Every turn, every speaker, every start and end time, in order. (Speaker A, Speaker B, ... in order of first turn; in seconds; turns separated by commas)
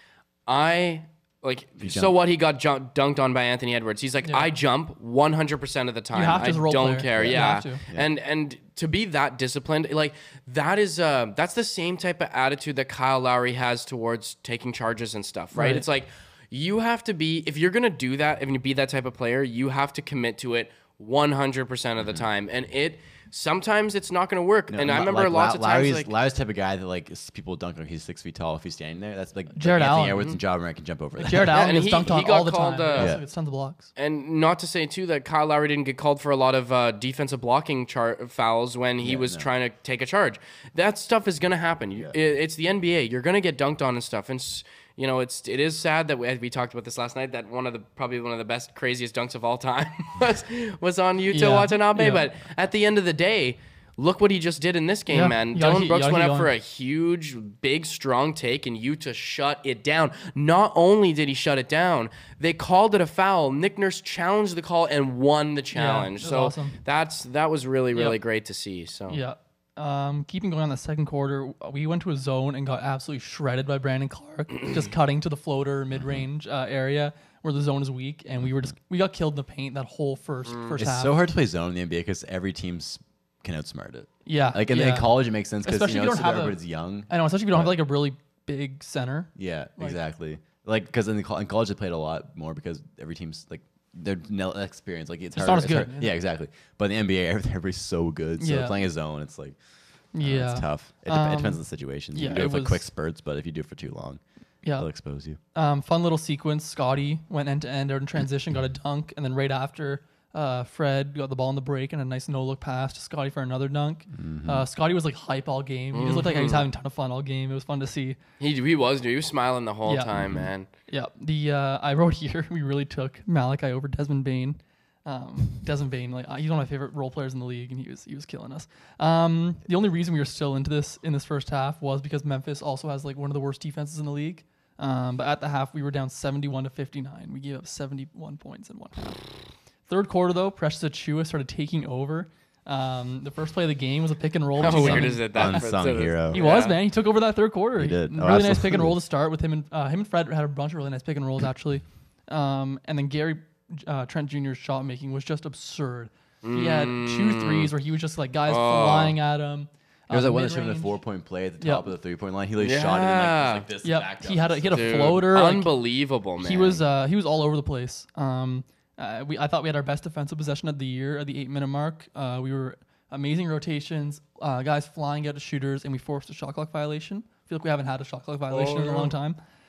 Speaker A: 0.5-26.1, Speaker B: 1.8-2.1, Speaker C: 4.2-4.5, Speaker C: 6.1-7.8, Speaker B: 7.1-8.1, Speaker C: 15.5-15.8, Speaker B: 24.7-31.8, Speaker C: 29.6-30.4, Speaker C: 31.2-33.9, Speaker A: 31.5-33.2, Speaker B: 32.9-33.2, Speaker A: 34.0-69.2, Speaker B: 39.0-39.5, Speaker C: 51.3-52.3, Speaker C: 55.1-56.5, Speaker C: 65.7-66.8, Speaker C: 69.1-81.2, Speaker A: 80.5-80.8, Speaker B: 80.8-87.7, Speaker C: 84.2-90.0, Speaker B: 89.4-99.6, Speaker C: 95.3-96.1, Speaker C: 98.4-98.8, Speaker C: 100.1-101.6, Speaker B: 100.2-104.2, Speaker C: 102.1-102.8, Speaker B: 104.8-105.4, Speaker C: 105.5-118.2, Speaker B: 114.1-114.7, Speaker A: 115.9-116.7, Speaker A: 118.4-120.7, Speaker C: 119.9-139.3, Speaker B: 120.1-120.5, Speaker C: 139.9-145.7, Speaker B: 144.6-146.4, Speaker A: 144.6-146.8, Speaker C: 146.3-161.0, Speaker B: 147.8-149.0, Speaker A: 156.4-157.7, Speaker A: 158.5-159.2, Speaker B: 160.1-165.2, Speaker C: 161.6-161.9, Speaker A: 162.6-163.7, Speaker C: 163.8-165.7, Speaker A: 164.7-166.8, Speaker C: 166.4-179.4, Speaker A: 178.6-179.1